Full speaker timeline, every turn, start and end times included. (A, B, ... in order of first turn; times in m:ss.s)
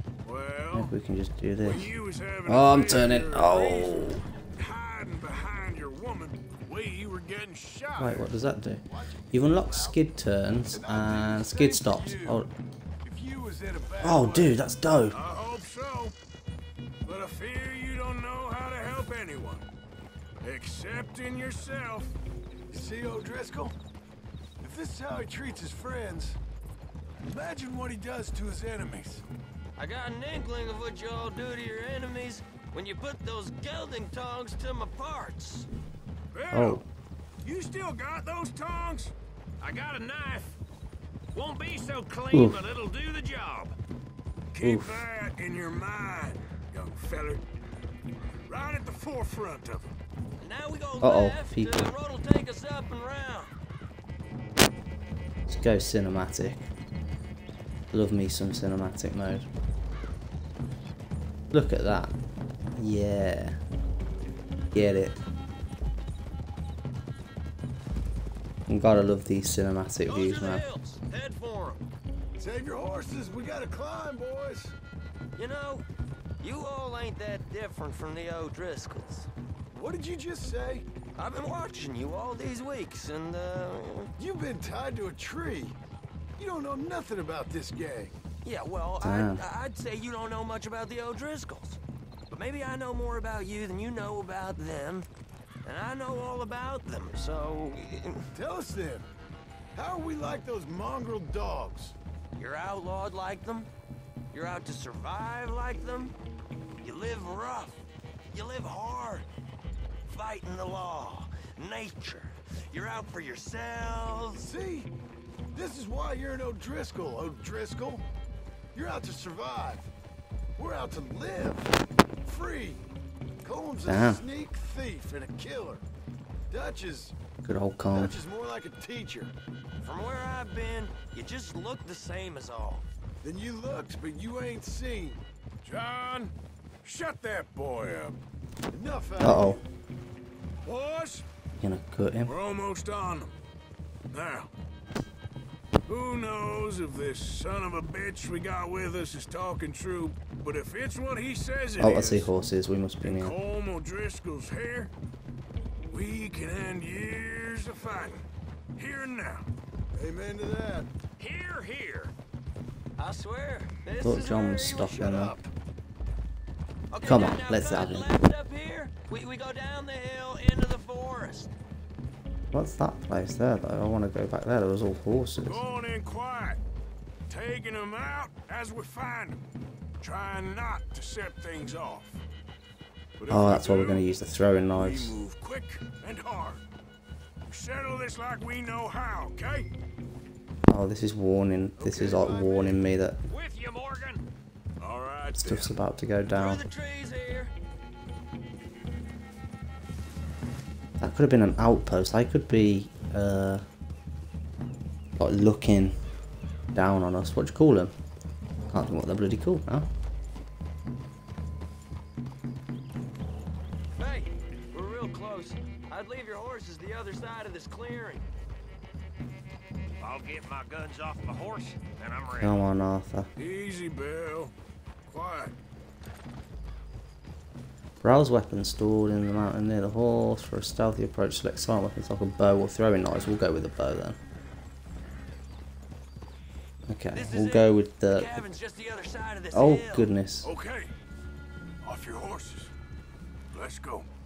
0:00.2-0:00.9 A
0:00.7-0:01.9 B
0:01.6-0:08.3 A
0:02.4-0:04.2 B
0:08.0-0:12.5 B
0:08.8-0:10.0 C
0:10.7-0:12.5 C
0:13.0-0:14.6 C
0:14.0-0:15.2 B
0:15.1-0:16.2 A
0:17.0-0:19.7 A
0:20.4-0:22.2 A
0:22.7-0:23.8 C
0:24.6-0:26.4 C
0:27.2-0:29.2 C
0:29.8-0:35.7 D
0:36.3-0:36.8 A
0:36.5-0:36.9 B
0:37.4-0:39.1 A
0:39.6-0:40.6 E
0:41.3-0:43.8 E
0:42.3-0:42.7 B
0:44.5-0:47.4 A
0:44.6-0:45.1 B
0:48.5-0:49.9 A
0:50.4-0:53.5 D
0:51.0-0:51.9 B
0:55.5-0:56.7 B
0:57.9-0:59.5 B
1:01.5-1:02.2 B
1:02.8-1:03.6 B
1:04.7-1:05.2 B
1:08.7-1:10.6 B
1:10.1-1:11.8 D
1:12.4-1:14.8 C
1:15.4-1:15.9 D
1:16.4-1:19.3 D
1:19.7-1:20.9 C
1:21.2-1:24.1 D
1:24.2-1:25.8 C
1:26.4-1:28.2 C
1:28.4-1:35.1 D
1:29.0-1:29.4 B
1:35.6-1:38.3 D
1:38.3-1:39.1 C
1:39.7-1:42.0 C
1:42.4-1:43.7 D
1:44.3-1:46.2 D
1:46.8-1:47.8 D
1:48.3-1:49.3 D
1:50.1-1:54.5 D
1:54.4-1:54.9 C
1:55.5-1:58.0 C
1:58.7-1:59.9 C
2:00.6-2:02.9 C
2:03.4-2:05.8 C
2:03.8-2:04.2 B
2:06.5-2:07.1 C
2:07.4-2:08.2 B
2:07.9-2:09.3 C
2:09.8-2:12.9 D
2:13.2-2:15.2 C
2:15.6-2:16.3 A
2:16.8-2:18.2 A
2:18.7-2:19.6 C
2:19.2-2:19.6 B
2:20.6-2:21.2 A
2:21.6-2:22.4 B
2:22.2-2:23.4 A
2:24.1-2:24.5 A
2:25.9-2:32.3 A
2:31.8-2:33.4 B
2:33.0-2:34.9 A
2:35.8-2:38.2 A
2:38.8-2:39.5 A
2:39.9-2:40.9 C
2:41.2-2:42.1 E
2:43.0-2:45.0 D
2:44.0-2:45.4 B
2:44.8-2:45.5 C
2:46.9-2:51.5 D
2:47.0-2:48.1 B
2:52.5-2:55.6 B
2:55.5-2:56.6 A
2:57.3-2:59.4 A
3:00.0-3:02.2 A
3:03.2-3:04.1 A
3:03.3-3:05.2 B
3:04.8-3:06.6 A
3:07.4-3:09.7 A
3:10.7-3:13.2 B
3:11.8-3:12.8 C
3:13.3-3:14.2 E
3:14.8-3:15.8 A
3:15.4-3:16.6 B
3:16.3-3:17.5 D
3:21.0-3:23.6 B
3:25.2-3:26.0 B
3:26.7-3:27.9 B
3:28.7-3:29.9 B
3:34.0-3:38.3 D
3:40.0-3:42.5 E
3:42.3-3:43.3 B
3:43.4-3:44.5 A
3:45.0-3:45.6 A
3:48.0-3:54.2 B
3:56.9-3:58.4 B
3:57.1-4:00.1 D
3:59.5-4:00.5 B
4:00.4-4:00.9 A
4:01.8-4:02.7 A
4:03.5-4:04.1 A